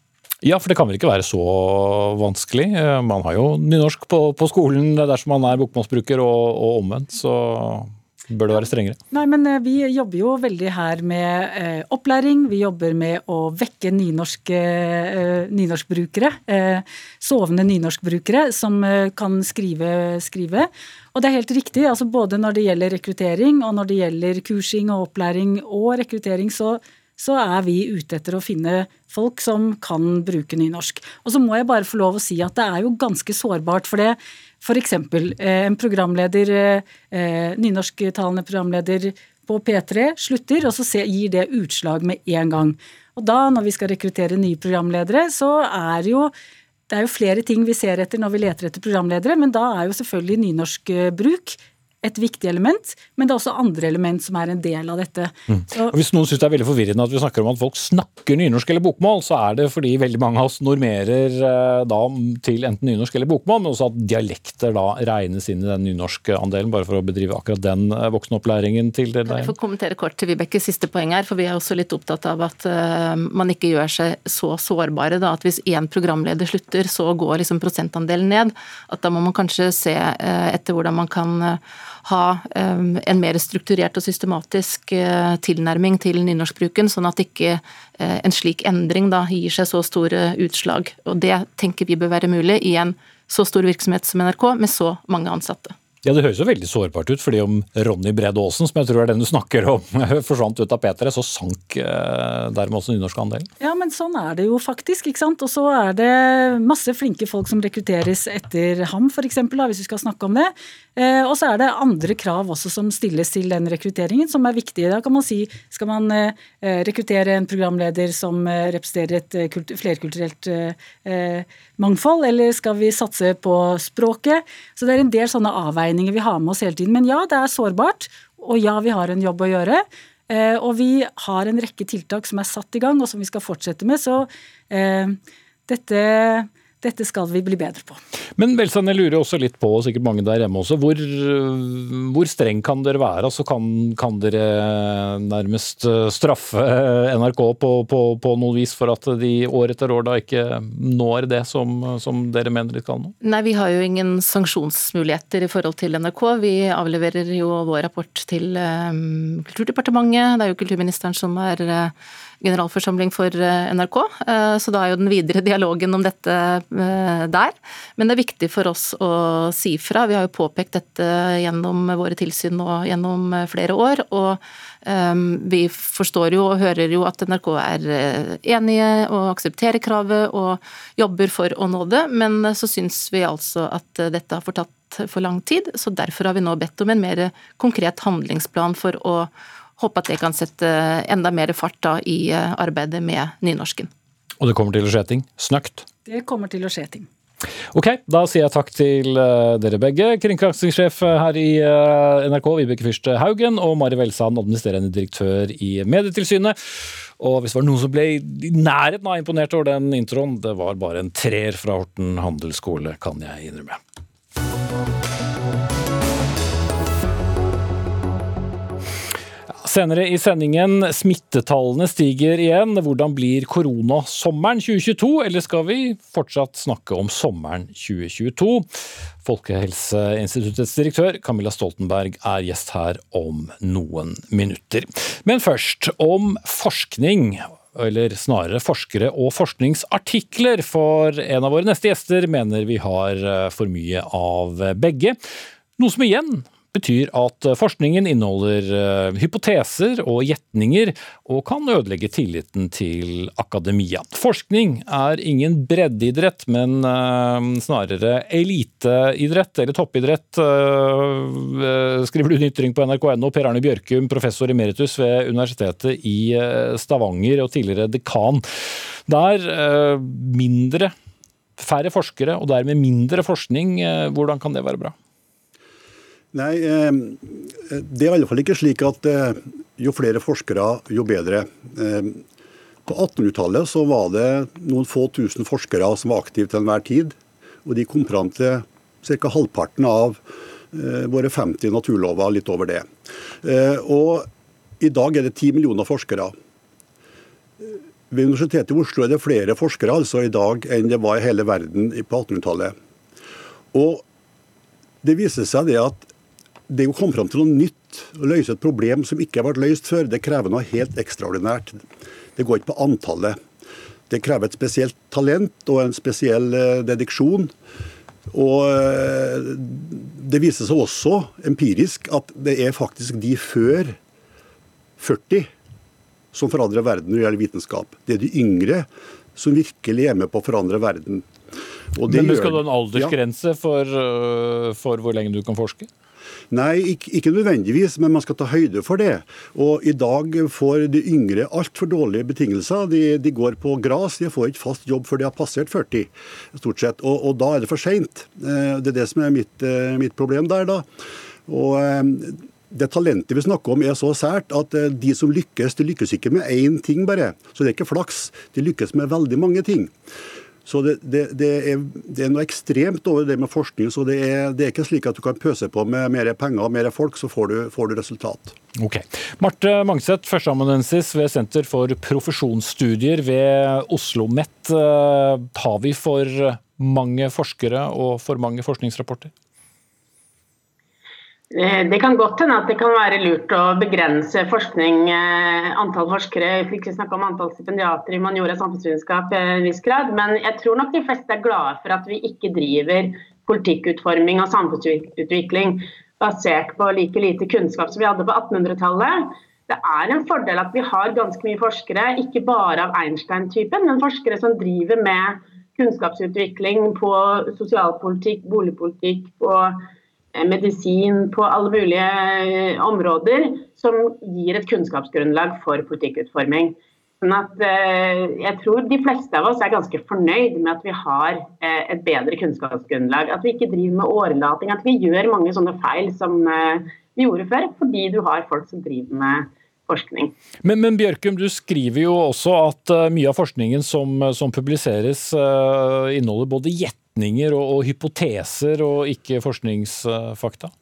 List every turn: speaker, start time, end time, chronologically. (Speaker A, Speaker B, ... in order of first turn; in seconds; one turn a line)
Speaker A: 0.4-9.0
Speaker B: 9.1-46.3
Speaker B: 46.9-56.0
Speaker A: 55.5-69.5
Speaker C: 69.3-95.8
Speaker A: 96.0-103.5
Speaker B: 103.6-138.0
Speaker A: 138.4-153.1
Speaker C: 153.2-193.9
Speaker A: 194.4-195.8
Speaker B: 196.1-197.1
Speaker A: 197.7-213.8
Speaker A: 219.6-228.7
Speaker A: 229.2-245.2
Speaker A: 245.8-268.4
Speaker A: 269.1-270.9
Speaker A: 271.6-274.9
Speaker D: 276.3-282.2
Speaker D: 282.9-292.9
Speaker D: 293.4-294.3
Speaker D: 294.8-296.3
Speaker D: 297.6-302.8
Speaker D: 303.7-304.0
Speaker D: 305.0-306.1
Speaker D: 306.7-311.9
Speaker D: 312.4-313.4
Speaker D: 314.1-317.5
Speaker D: 318.3-324.0
Speaker D: 325.0-325.5
Speaker D: 326.3-331.3
Speaker D: 331.9-333.1
Speaker A: 332.1-335.9
Speaker D: 336.5-350.9
Speaker D: 351.5-359.9
Speaker D: 360.7-368.6
Speaker A: 368.8-379.3
Speaker E: 381.5-409.8
Speaker E: 410.4-430.3
Speaker A: 430.6-440.7